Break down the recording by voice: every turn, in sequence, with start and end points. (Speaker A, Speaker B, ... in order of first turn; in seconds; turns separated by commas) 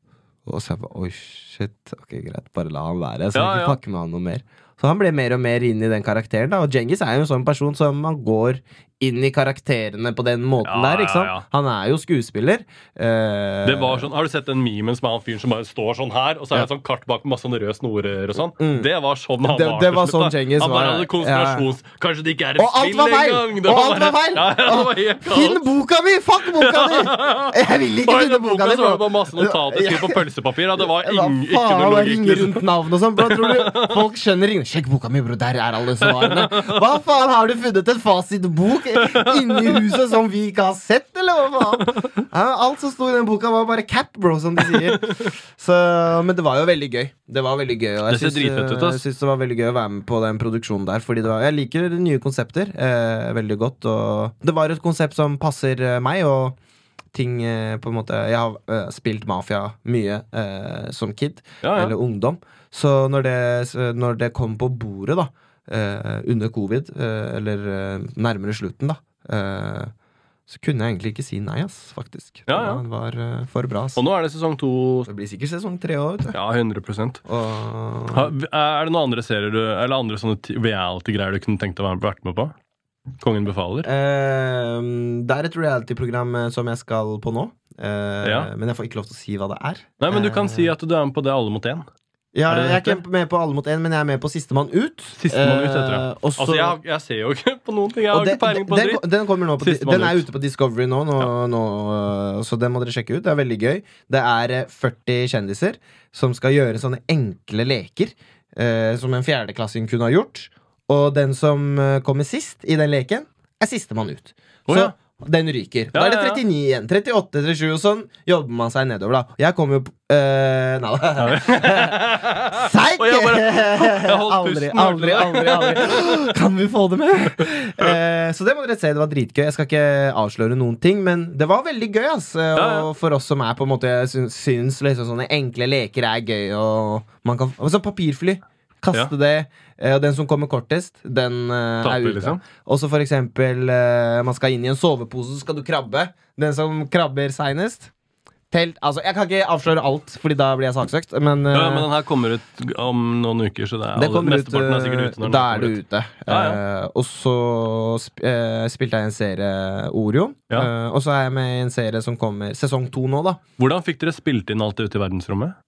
Speaker A: 0.5-14.1, Speaker B: 3.3-3.8, Speaker B: 10.6-11.4, Speaker B: 13.6-25.7, Speaker A: 18.6-18.9, Speaker A: 19.4-21.7, Speaker A: 22.6-30.2, Speaker B: 26.5-32.6, Speaker A: 30.8-56.5, Speaker B: 33.2-34.0, Speaker B: 36.0-36.8, Speaker B: 38.9-39.8, Speaker B: 45.0-45.3, Speaker B: 48.1-49.0, Speaker A: 57.1-69.9, Speaker B: 61.6-61.9, Speaker A: 70.5-74.0, Speaker B: 72.5-72.8, Speaker B: 74.0-75.1, Speaker A: 75.1-76.4, Speaker B: 76.3-77.2, Speaker A: 77.2-78.3, Speaker B: 78.1-82.5, Speaker B: 83.2-83.9, Speaker A: 83.8-90.7, Speaker B: 88.2-88.5, Speaker B: 90.0-91.8, Speaker A: 92.3-96.8, Speaker B: 92.5-93.0, Speaker B: 95.2-99.0, Speaker A: 98.1-147.9, Speaker B: 99.6-100.2, Speaker B: 114.7-114.9, Speaker B: 115.9-116.4, Speaker B: 121.2-126.3, Speaker B: 132.5-132.9, Speaker B: 141.8-142.4, Speaker A: 148.5-151.9, Speaker B: 151.5-156.6, Speaker A: 153.9-163.4, Speaker B: 163.6-165.5